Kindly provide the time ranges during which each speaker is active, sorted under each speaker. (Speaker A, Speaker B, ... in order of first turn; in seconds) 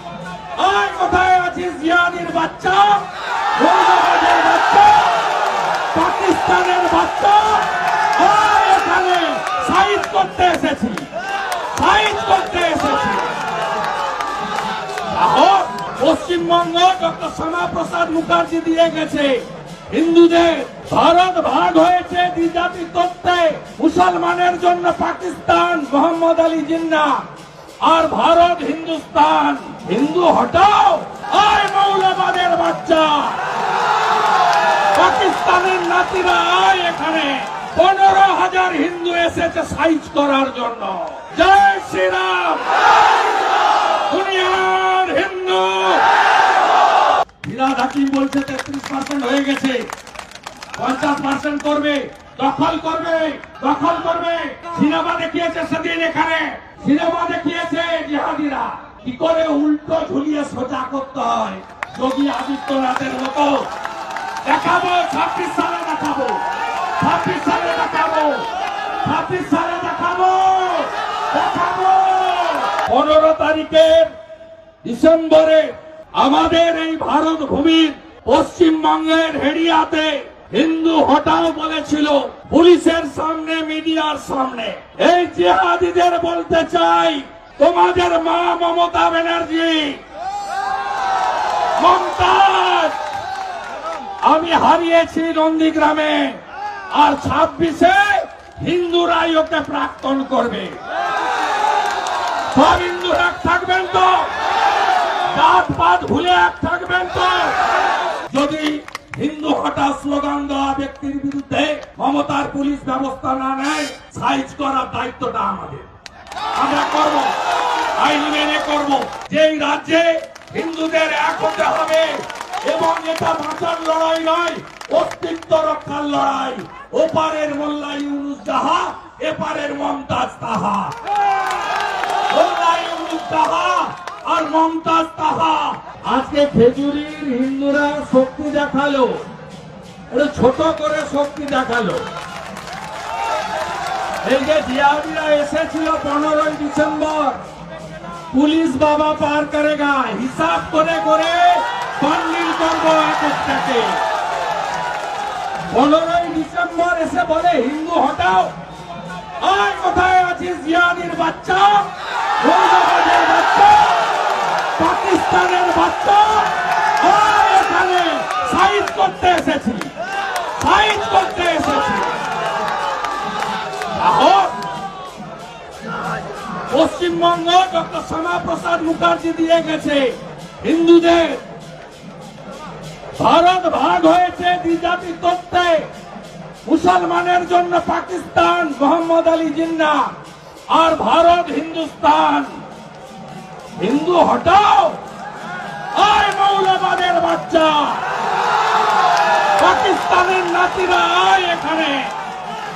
Speaker A: 0.6-3.0, 3.6-5.2, 5.9-11.1, 11.7-13.3, 15.1-27.2, 27.8-33.4, 34.9-42.7, 44.1-46.0, 47.4-49.9, 50.8-63.7, 64.4-66.4, 67.0-68.5, 69.0-74.1, 74.8-90.0, 91.8-93.0, 94.2-100.8, 102.5-104.3, 105.3-107.6, 108.3-115.9, 116.5-117.4, 118.0-130.9, 132.3-139.3, 140.1-142.1, 144.2-147.4, 148.3-154.0, 155.7-158.5, 159.4-164.1, 164.8-169.9, 170.6-172.2, 173.9-174.6, 176.7-181.4, 183.2-185.9, 186.7-190.1, 190.7-192.6, 193.8-195.0, 196.0-198.0, 199.6-202.1